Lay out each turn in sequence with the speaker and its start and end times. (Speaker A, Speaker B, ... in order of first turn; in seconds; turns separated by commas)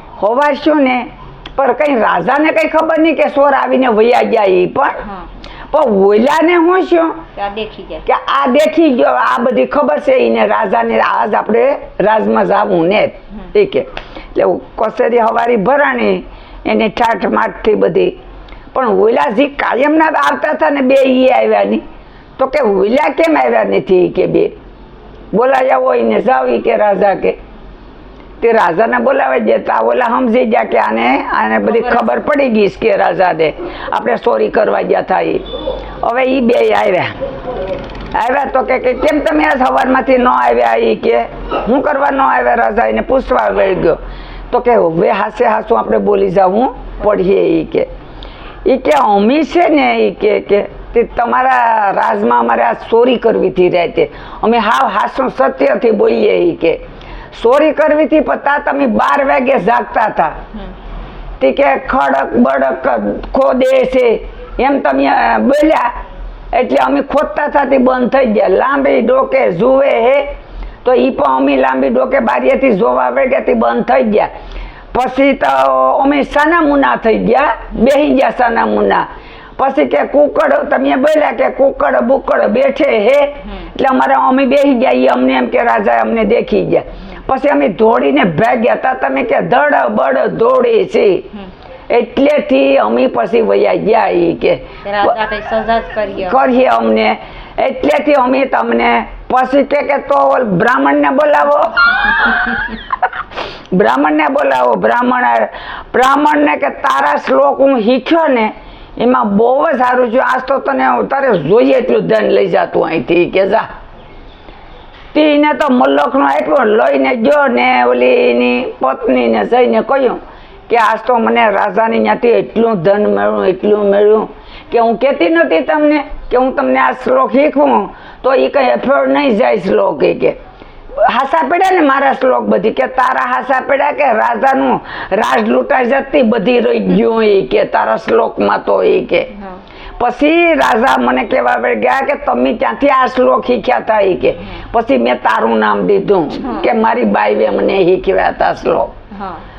Speaker A: 0.2-5.0, Speaker A: 5.7-7.2, Speaker B: 7.3-8.1, Speaker A: 8.1-18.2, Speaker A: 18.7-21.8, Speaker A: 22.4-24.6, Speaker A: 25.3-27.4, Speaker A: 28.4-35.5, Speaker B: 31.7-32.2, Speaker A: 36.0-37.2, Speaker A: 38.1-44.0, Speaker A: 44.5-47.9, Speaker A: 48.6-56.8, Speaker A: 57.3-60.4, Speaker A: 61.4-65.9, Speaker A: 66.5-70.3, Speaker A: 70.8-74.3, Speaker A: 74.9-79.1, Speaker A: 79.6-91.3, Speaker A: 91.9-95.2, Speaker B: 94.8-96.5, Speaker A: 96.2-102.8, Speaker A: 103.7-113.7, Speaker A: 115.1-130.4, Speaker A: 131.0-139.3, Speaker A: 140.0-148.9, Speaker B: 146.4-146.7, Speaker B: 149.1-149.4